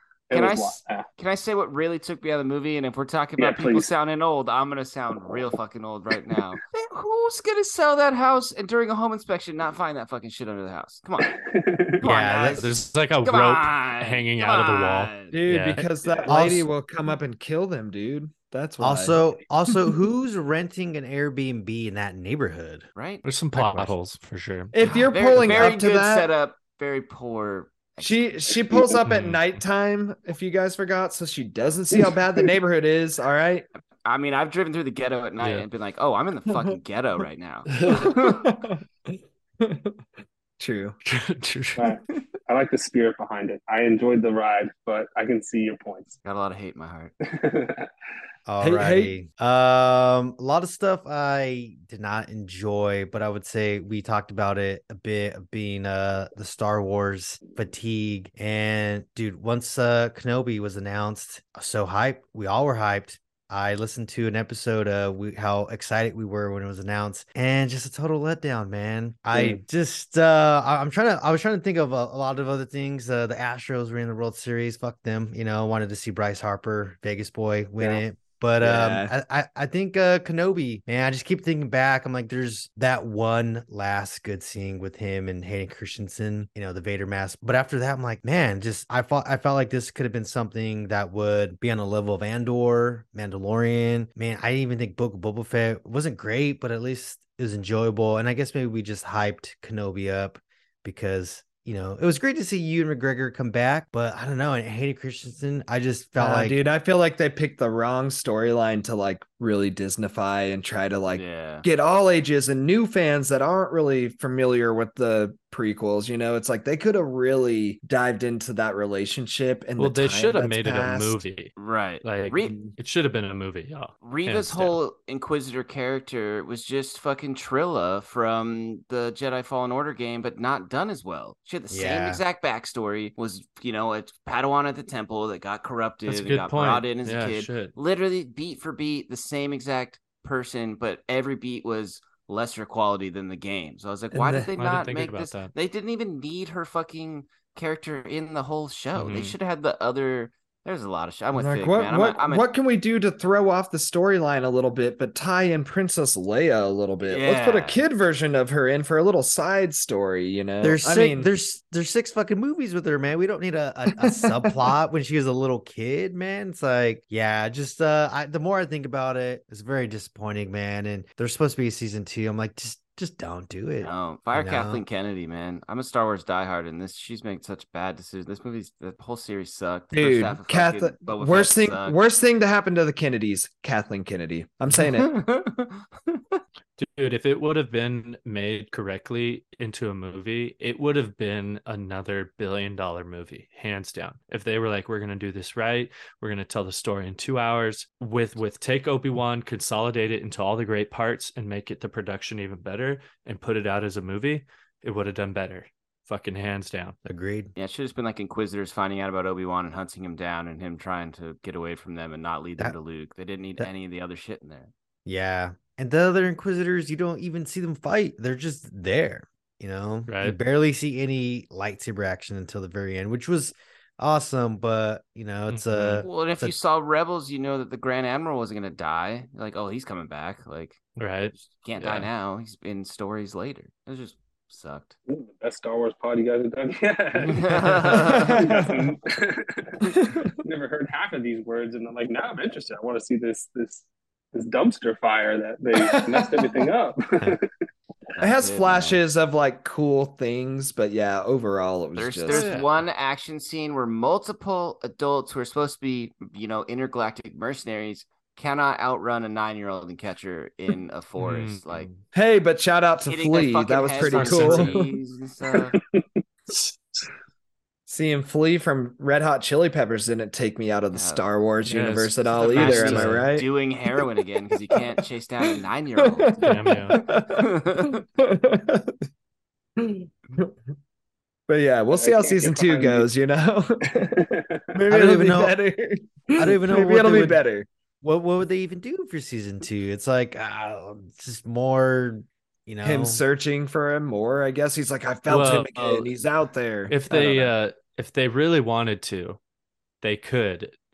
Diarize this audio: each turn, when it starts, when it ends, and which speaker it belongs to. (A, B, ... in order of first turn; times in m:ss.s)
0:00.3-0:01.0 A
0:00.3-0:11.3 B
0:03.4-0:03.9 A
0:11.2-0:12.0 A
0:12.0-0:15.3 B
0:12.0-0:12.7 C
0:12.5-0:15.8 D
0:15.3-0:19.7 E
0:16.3-0:16.7 C
0:18.8-0:22.9 C
0:22.9-0:23.9 B
0:23.2-0:25.1 D
0:24.7-0:26.3 E
0:24.8-0:28.4 B
0:28.0-0:33.6 E
0:28.5-0:29.0 A
0:29.1-0:29.4 D
0:31.9-0:32.5 A
0:34.0-0:38.4 B
0:35.4-0:35.6 D
0:36.5-0:36.8 E
0:37.7-0:38.1 D
0:37.8-0:40.0 E
0:40.6-0:41.0 E
0:41.1-0:42.0 D
0:41.8-0:46.2 A
0:46.2-0:47.1 B
0:47.2-0:47.9 A
0:48.4-1:46.6 C
0:48.6-0:49.1 E
1:18.6-1:19.1 E
1:46.2-2:01.2 E
1:51.1-1:51.6 B
1:59.8-2:04.8 D
2:01.6-2:02.6 B
2:04.0-2:32.5 B
2:11.7-2:12.2 C
2:16.1-2:17.7 D
2:24.1-2:24.5 E
2:24.6-2:25.5 D
2:28.9-2:29.3 D
2:31.3-2:41.3 E
2:37.0-2:37.8 B
2:40.6-2:54.8 C
2:43.9-2:44.6 E
2:53.8-3:02.0 B
2:59.9-3:05.2 E
3:04.7-3:06.4 B
3:06.8-3:27.0 D
3:27.0-3:27.5 C
3:27.6-3:34.7 B
3:35.0-3:46.5 C
3:40.1-3:40.4 D
3:45.5-3:46.1 D
3:46.0-3:54.9 B
3:51.0-3:52.1 D
3:55.1-4:07.5 A
3:57.2-3:58.5 B
3:57.9-3:59.0 E
3:59.8-4:00.4 E
4:05.7-4:06.7 E
4:08.2-4:09.0 B
4:08.2-4:12.5 E
4:12.0-4:21.9 B
4:12.3-4:12.7 D
4:21.2-4:22.0 D
4:22.1-4:24.9 E
4:23.0-4:25.7 B
4:24.1-4:24.8 D
4:25.7-4:26.0 A
4:26.5-4:27.1 D
4:27.9-4:33.5 E
4:30.9-4:31.2 B
4:31.6-4:33.3 D
4:32.4-4:38.0 B
4:34.7-4:39.0 E
4:36.4-4:37.0 D
4:39.8-4:40.5 E
4:41.5-4:44.1 E
4:41.9-4:43.1 A
4:43.8-4:44.8 A
4:44.7-4:47.7 E
4:44.9-4:45.6 C
4:46.4-4:47.4 C
4:48.0-4:53.2 C
4:52.8-4:57.5 E
4:55.3-4:56.1 D
4:56.9-4:59.4 D
5:00.0-5:00.8 D